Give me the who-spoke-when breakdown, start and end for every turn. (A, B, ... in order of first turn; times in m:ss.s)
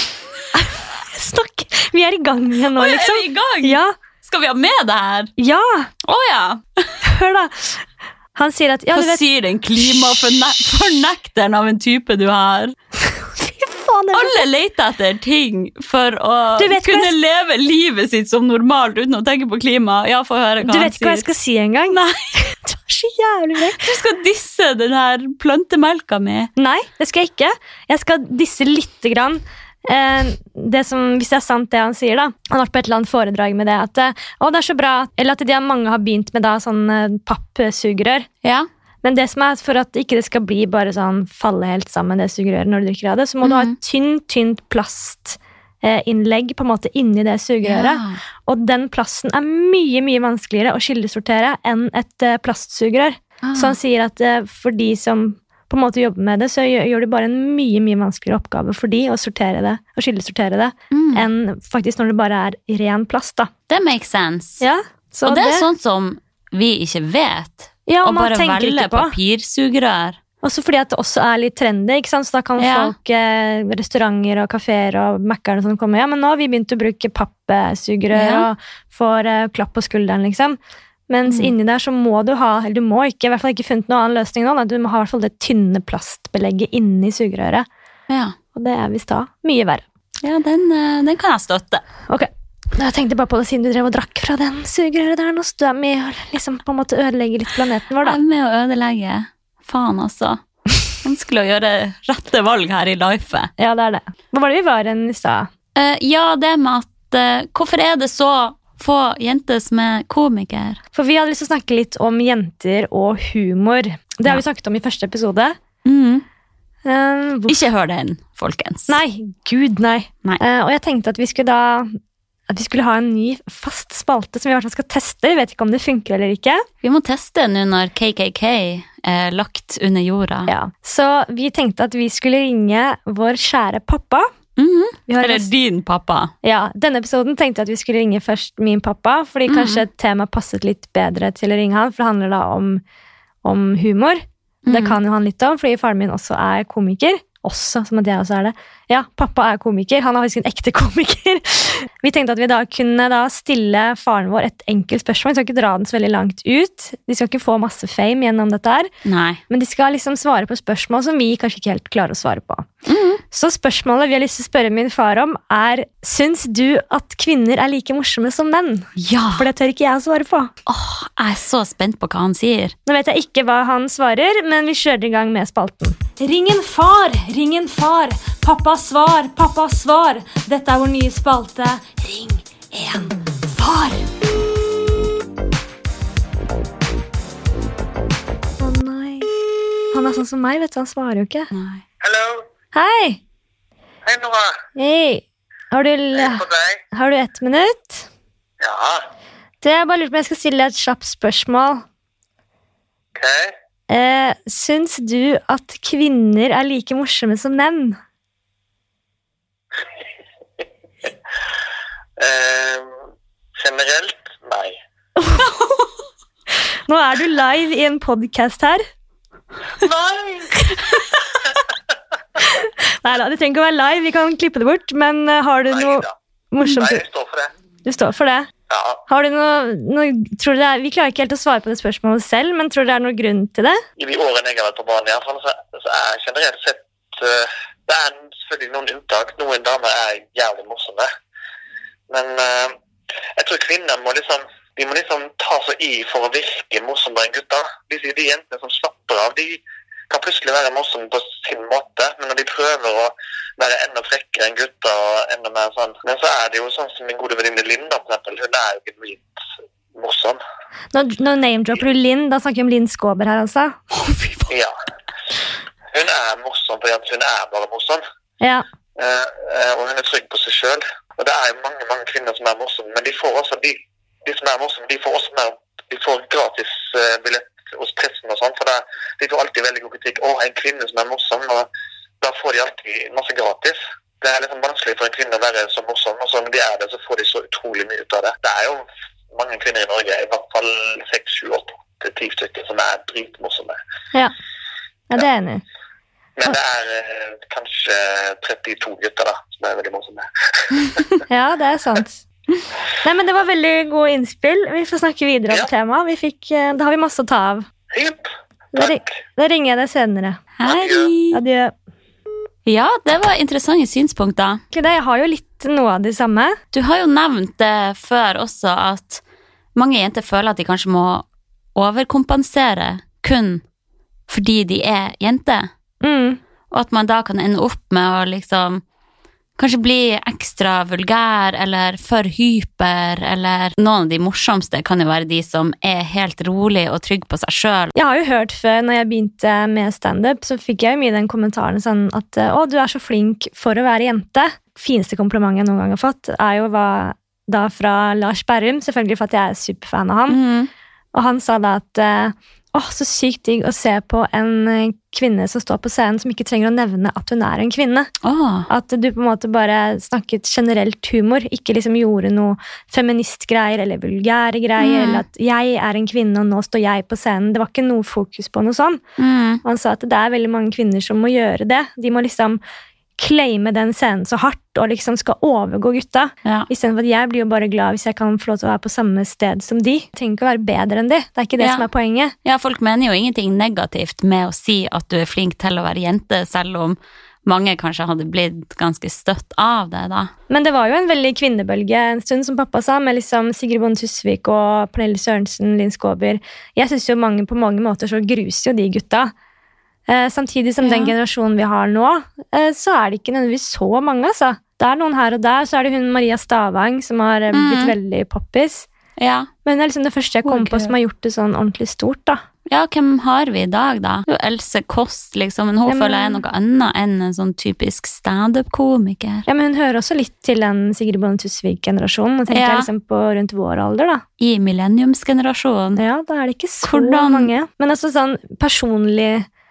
0:00.5-0:03.9 A
0:02.8-0:05.3 B
0:05.4-0:05.9 A
0:06.0-0:07.0 B
0:07.0-0:07.8 A
0:08.4-0:09.2 A
0:08.9-0:12.8 B
0:13.1-0:14.4 A
0:14.1-0:21.3 B
0:16.6-0:17.1 A
0:20.6-0:23.9 A
0:21.9-0:22.3 B
0:23.7-0:26.5 B
0:26.6-0:38.3 A
0:39.0-1:03.5 A
0:43.4-0:43.8 B
0:47.6-0:48.2 B
0:53.4-0:53.8 B
1:00.9-1:01.3 B
1:03.7-1:04.6 B
1:04.6-1:05.7 A
1:05.3-1:10.2 B
1:07.9-1:09.2 A
1:10.4-1:20.6 A
1:12.6-1:12.9 B
1:18.1-1:18.5 B
1:21.1-1:27.7 A
1:21.3-1:21.5 B
1:28.1-1:28.4 B
1:28.5-1:29.8 A
1:30.2-1:31.8 B
1:32.1-1:38.2 A
1:38.0-1:40.4 B
1:41.0-1:43.5 B
1:43.6-1:45.5 A
1:45.8-1:50.8 B
1:50.9-1:55.6 A
1:55.8-1:56.2 B
1:56.8-1:57.6 A
1:57.5-1:59.0 B
1:58.9-2:01.9 A
2:02.5-2:06.6 A
2:06.8-2:10.5 B
2:10.5-2:14.3 A
2:14.6-2:16.3 B
2:15.1-2:15.5 A
2:16.4-2:22.8 A
2:19.5-2:19.8 B
2:23.4-2:38.9 A
2:24.7-2:25.0 B
2:39.0-2:39.4 B
2:39.5-2:42.7 A
2:42.9-2:43.2 B
2:43.3-2:50.5 A
2:49.0-2:49.5 B
2:50.7-2:52.8 B
2:52.9-3:04.1 A
3:08.6-3:09.3 A
3:09.9-3:11.5 A
3:11.5-3:11.8 B
3:12.0-3:12.5 C
3:12.7-3:13.2 A
3:14.0-3:14.6 C
3:14.8-3:18.1 A
3:16.2-3:16.8 C
3:18.6-3:19.1 C
3:19.6-3:21.8 A
3:23.2-3:23.6 C
3:23.9-3:28.0 A
3:32.2-3:32.9 C
3:33.6-3:34.8 C
3:35.2-3:35.7 A
3:36.9-3:38.8 A
3:39.8-3:40.7 C
3:40.7-3:41.1 A
3:42.4-3:47.0 A
3:45.7-3:46.1 C
3:46.7-3:47.5 C
3:47.8-3:48.5 A
3:48.7-3:49.0 C
3:49.1-3:53.8 A
3:54.0-4:01.1 C
4:02.1-4:02.8 C
4:03.4-4:19.2 C
4:20.0-4:20.4 C
4:20.9-4:23.9 A
4:23.9-4:24.5 B
4:25.9-4:28.0 C
4:29.0-4:41.7 C
4:42.2-4:53.8 C
4:55.1-4:55.6 A
4:56.4-5:01.1 C
5:01.3-5:02.2 A
5:03.0-5:07.7 A
5:07.9-5:09.0 C
5:08.7-5:10.4 A
5:10.6-5:11.4 B
5:10.6-5:11.1 C
5:11.3-5:11.7 A
5:12.7-5:14.6 B
5:14.7-5:16.6 A
5:16.7-5:19.2 B
5:19.8-5:23.6 B
5:24.3-5:25.7 B
5:26.0-5:26.4 A
5:26.7-5:28.8 B
5:29.6-5:37.9 B
5:38.0-5:50.4 A
5:50.3-5:50.7 B
5:51.1-5:58.1 A
5:58.2-5:58.7 B
5:58.7-6:09.0 A
6:04.8-6:05.2 B
6:09.2-6:09.6 B
6:09.6-6:12.6 A
6:13.2-6:22.3 A
6:21.6-6:21.9 B
6:22.4-6:30.3 B
6:30.5-6:39.3 A
6:40.1-6:48.9 A
6:40.8-6:41.1 B
6:47.5-6:47.9 B
6:49.2-6:49.5 B
6:49.6-6:52.4 A
6:50.4-6:50.9 B
6:52.7-6:59.5 B
6:55.9-6:56.4 A
6:59.5-7:04.2 A
7:02.5-7:02.9 B
7:04.4-7:06.0 B
7:06.0-7:09.5 A
7:06.8-7:07.5 B